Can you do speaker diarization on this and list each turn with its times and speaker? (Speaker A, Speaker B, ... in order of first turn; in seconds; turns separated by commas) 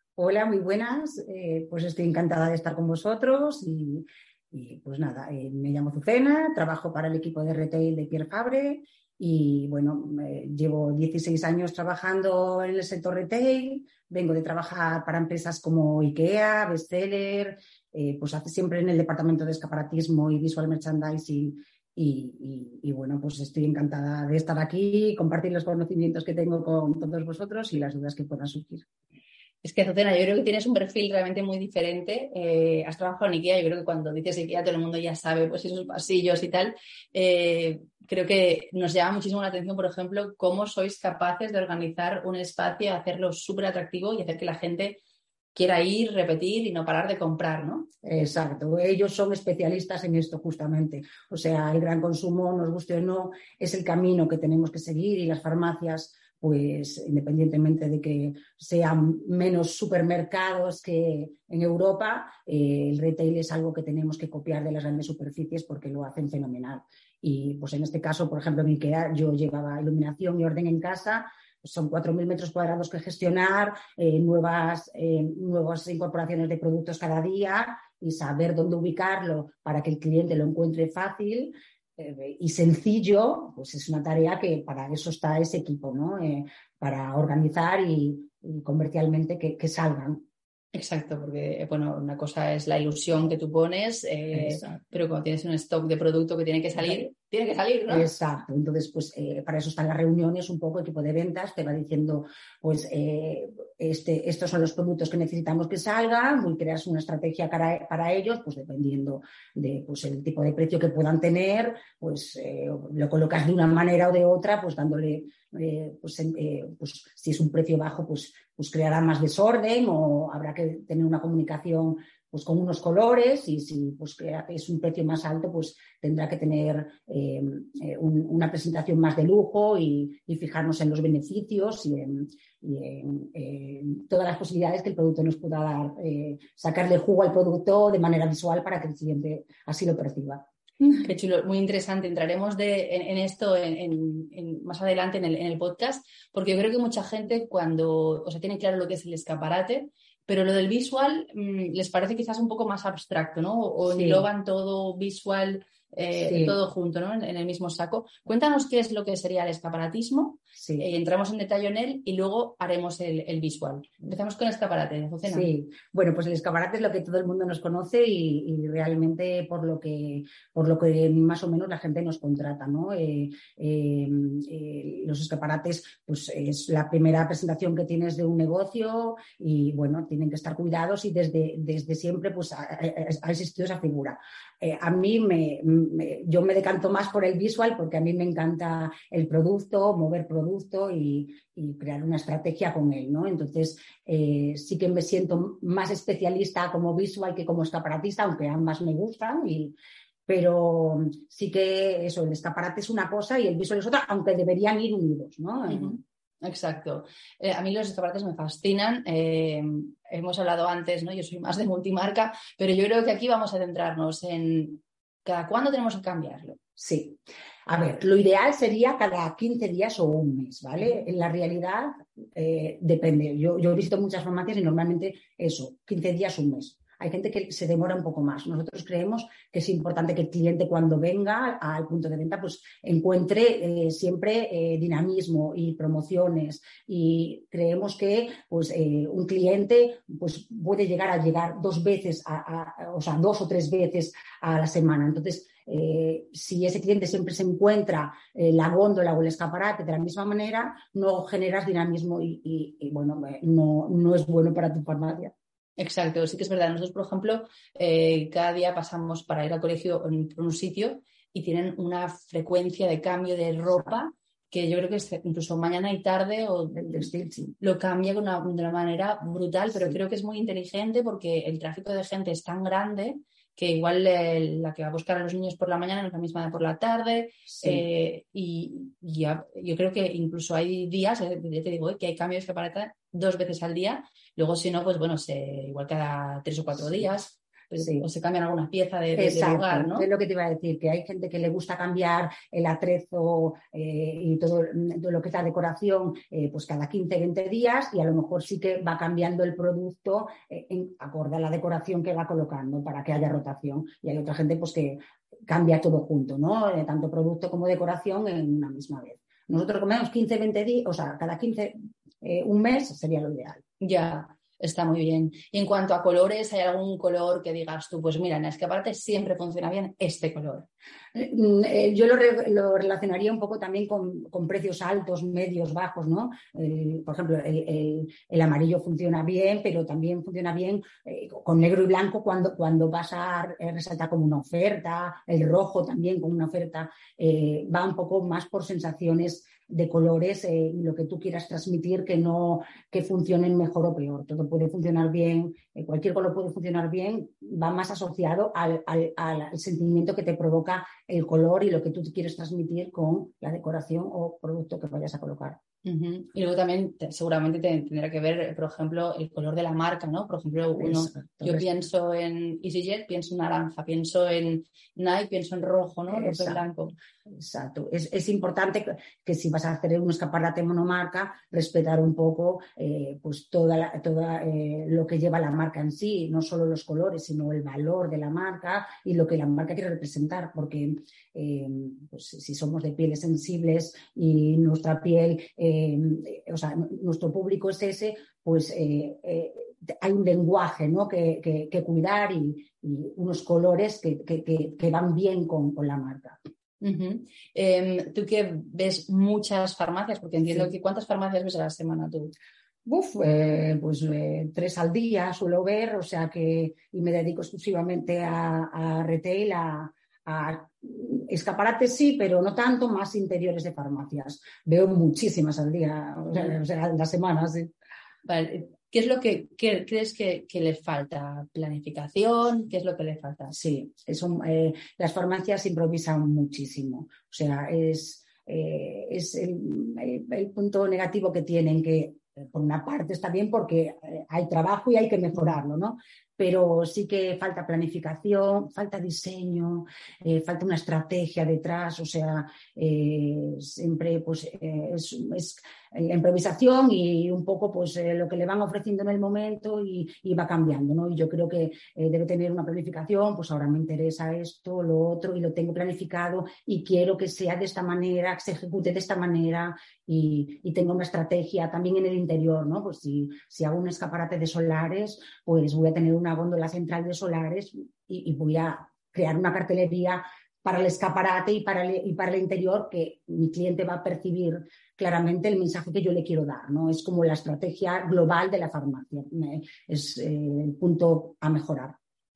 Speaker A: 0.2-28.9, Speaker B: 29.6-45.0, Speaker B: 45.5-47.9, Speaker A: 48.0-90.2, Speaker B: 90.7-98.1, Speaker A: 94.3-94.8, Speaker A: 96.8-97.0, Speaker A: 97.9-140.5, Speaker B: 140.8-165.5, Speaker A: 153.8-154.3, Speaker A: 156.2-156.6, Speaker A: 160.6-160.9, Speaker A: 165.2-199.8, Speaker A: 200.3-206.0, Speaker B: 205.7-216.6, Speaker A: 216.8-255.3, Speaker B: 255.8-290.1, Speaker A: 266.7-267.5, Speaker A: 287.8-288.0, Speaker A: 289.2-313.6, Speaker B: 313.8-320.7, Speaker A: 321.1-355.6, Speaker B: 355.8-366.9, Speaker A: 360.8-361.7, Speaker A: 366.1-366.6, Speaker A: 367.3-396.4, Speaker B: 396.8-402.3, Speaker A: 402.8-417.7, Speaker B: 418.2-423.5, Speaker A: 423.5-481.9